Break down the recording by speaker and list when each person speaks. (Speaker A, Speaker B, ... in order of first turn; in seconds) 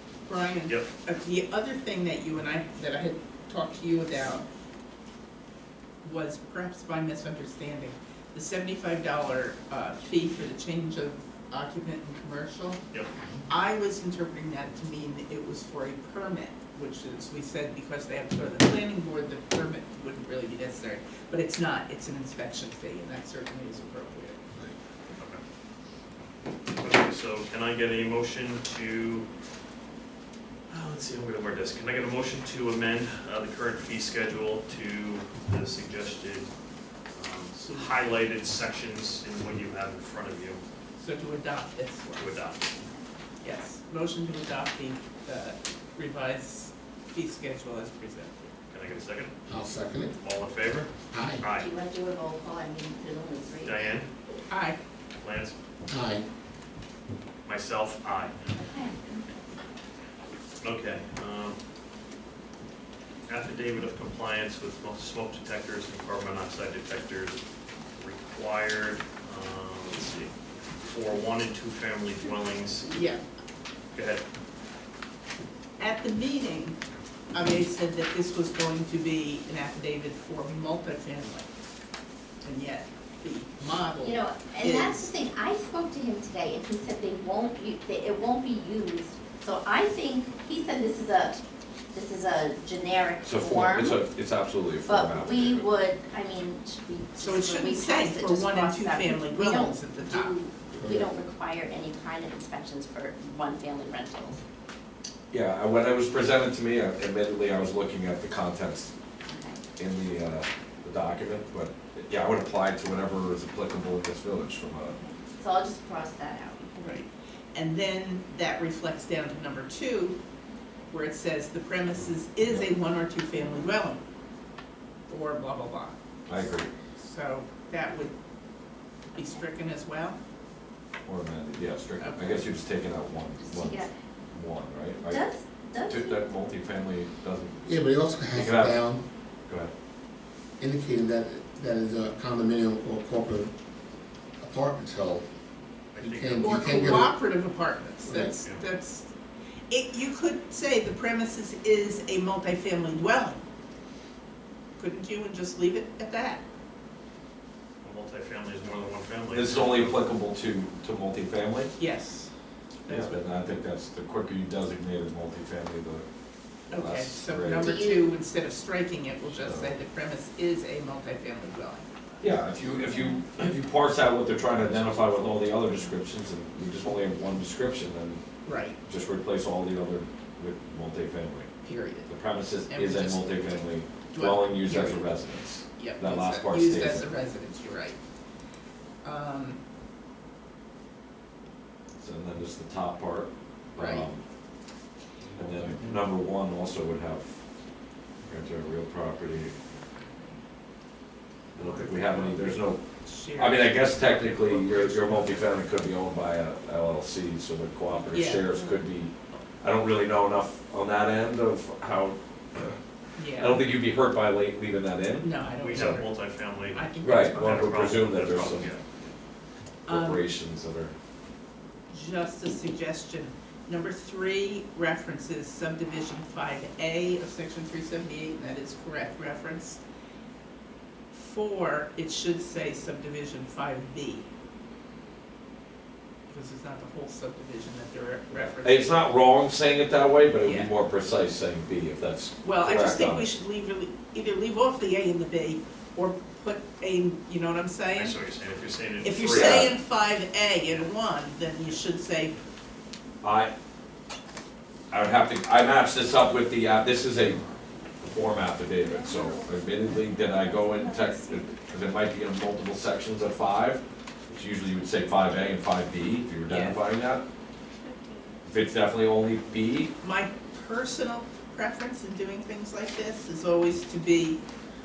Speaker A: 0.3-4.5, 6.0-12.8, 13.5-24.4, 41.0-42.4, 43.4-48.5, 54.5-54.8, 72.9-73.2, 75.8-76.8, 77.3-81.5, 82.4-85.1, 97.2-100.4, 116.8-120.2, 120.9-124.0, 125.1-126.0, 126.8-128.1, 129.1-130.2, 132.0-132.5, 146.4-149.1, 149.7-153.4, 154.8-156.4, 161.8-162.3, 162.9-163.2, 166.7-171.9, 178.4-178.8, 181.6-182.1, 182.7-183.3, 184.1-185.1, 185.7-188.0, 189.0-189.6, 193.8-194.1, 201.6-205.6, 208.1-208.5, 213.2-213.6, 215.2-216.2, 216.7-217.8, 219.9-220.2, 221.9-229.8, 231.1-234.3, 236.3-238.9, 240.4-240.7, 242.4-248.1, 249.0-252.4, 266.5-266.8, 270.0-274.4
Speaker B: 25.1-25.4, 26.8-29.3, 30.7-36.5, 37.1-40.6, 42.2-42.6, 48.7-49.4, 50.2-51.7, 53.6-54.1, 55.2-55.6, 57.5-58.5, 60.6-61.6, 63.3-67.4, 68.0-72.9, 73.9-74.2, 145.9-147.0, 157.8-160.1, 215.6-216.8, 217.4-218.8, 247.9-249.8
Speaker C: 49.5-50.1, 51.1-51.4, 55.9-56.2, 100.7-101.1, 137.7-139.1, 140.6-143.5, 144.4-145.3, 146.0-147.2, 148.0-148.4, 195.4-195.9
Speaker D: 51.5-53.9, 58.5-59.2, 84.0-94.0, 94.9-104.4, 109.2-109.6, 115.0-116.8, 133.4-133.9, 135.0-136.3, 167.6-168.1, 258.9-261.6
Speaker E: 93.2-95.5, 105.3-108.9, 109.8-115.0, 126.3-126.7, 131.1-135.3, 135.9-137.8, 138.3-138.9, 159.3-161.8, 162.9-166.1, 166.7-167.7, 169.3-169.8, 172.2-178.2, 178.8-181.5, 182.1-187.1, 192.0-194.2, 195.4-197.4, 198.2-199.5, 201.5-202.8, 203.4-212.8, 213.4-216.0, 217.0-218.7, 219.9-220.9, 238.3-243.3, 249.3-249.7, 253.2-253.5, 254.9-257.4, 258.0-267.2, 268.4-269.9